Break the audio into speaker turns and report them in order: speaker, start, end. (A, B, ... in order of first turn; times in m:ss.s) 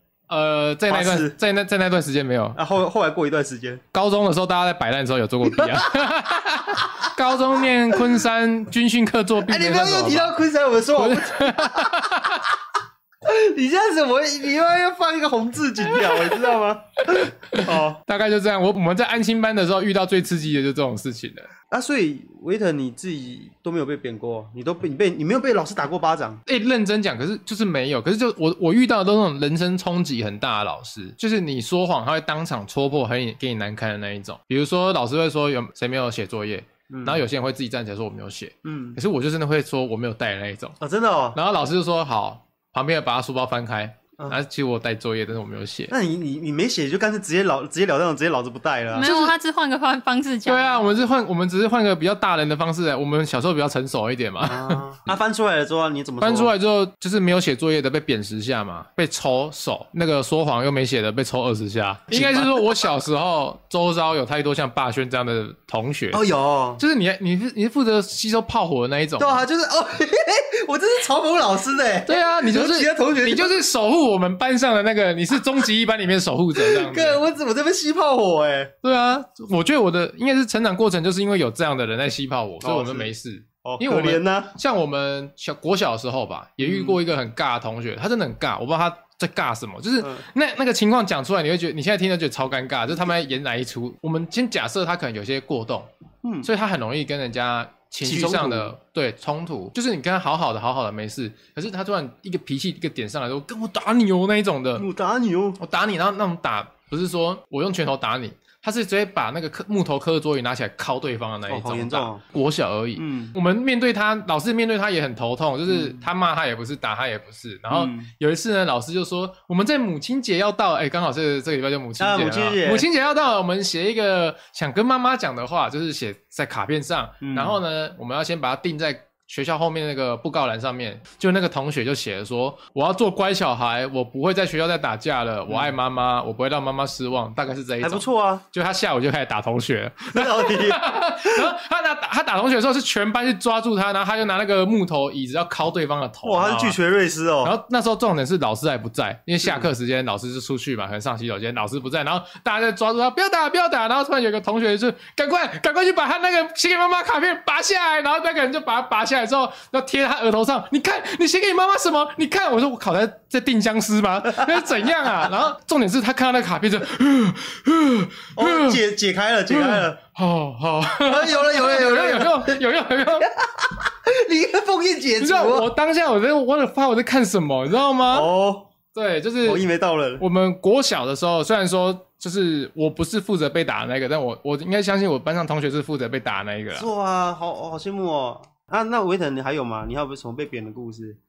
0:00.3-0:02.6 A
0:00.9-0:01.4 B
0:02.6-0:03.8 B
0:03.9-0:10.4 A
0:05.5-0:06.1 B
0:09.4-0:12.5 B
0:10.9-0:12.4 A
0:13.2-0:18.0 B
0:15.9-0:16.4 A
0:17.1-0:21.5 A
0:21.7-0:26.4 B
0:26.5-0:40.8 A
0:36.9-0:37.2 B
0:38.6-0:39.0 B
0:40.8-0:41.4 B
0:41.3-0:45.9 A
0:45.9-0:49.1 B
0:48.9-0:50.9 C
0:49.0-0:49.3 A
0:50.4-0:54.8 A
0:54.4-0:56.5 B
0:56.2-1:06.2 A
1:02.1-1:02.8 B
1:06.1-1:06.8 B
1:06.8-1:09.4 A
1:09.2-1:13.6 B
1:12.1-1:17.2 A
1:16.6-1:18.7 B
1:18.8-1:35.9 A
1:22.6-1:23.1 B
1:23.6-1:24.5 B
1:26.6-1:27.0 B
1:36.2-1:36.5 B
1:36.4-1:44.8 A
1:38.0-1:38.7 B
1:44.8-1:45.6 B
1:45.6-2:26.8 A
1:51.5-1:52.2 B
1:53.0-1:53.3 B
1:55.7-1:56.0 B
1:57.7-1:58.1 B
2:02.0-2:02.9 B
2:07.2-2:07.6 B
2:15.5-2:15.7 B
2:17.8-2:18.4 B
2:20.1-2:21.4 B
2:26.2-2:27.5 B
2:27.4-2:48.8 A
2:48.4-2:50.0 B
2:49.5-2:53.3 A
2:51.0-2:52.6 B
2:53.3-2:55.7 B
2:55.2-2:58.3 A
2:58.1-2:58.7 B
2:58.9-2:59.6 A
2:59.4-3:00.2 B
3:00.2-3:06.9 A
3:06.7-3:11.2 B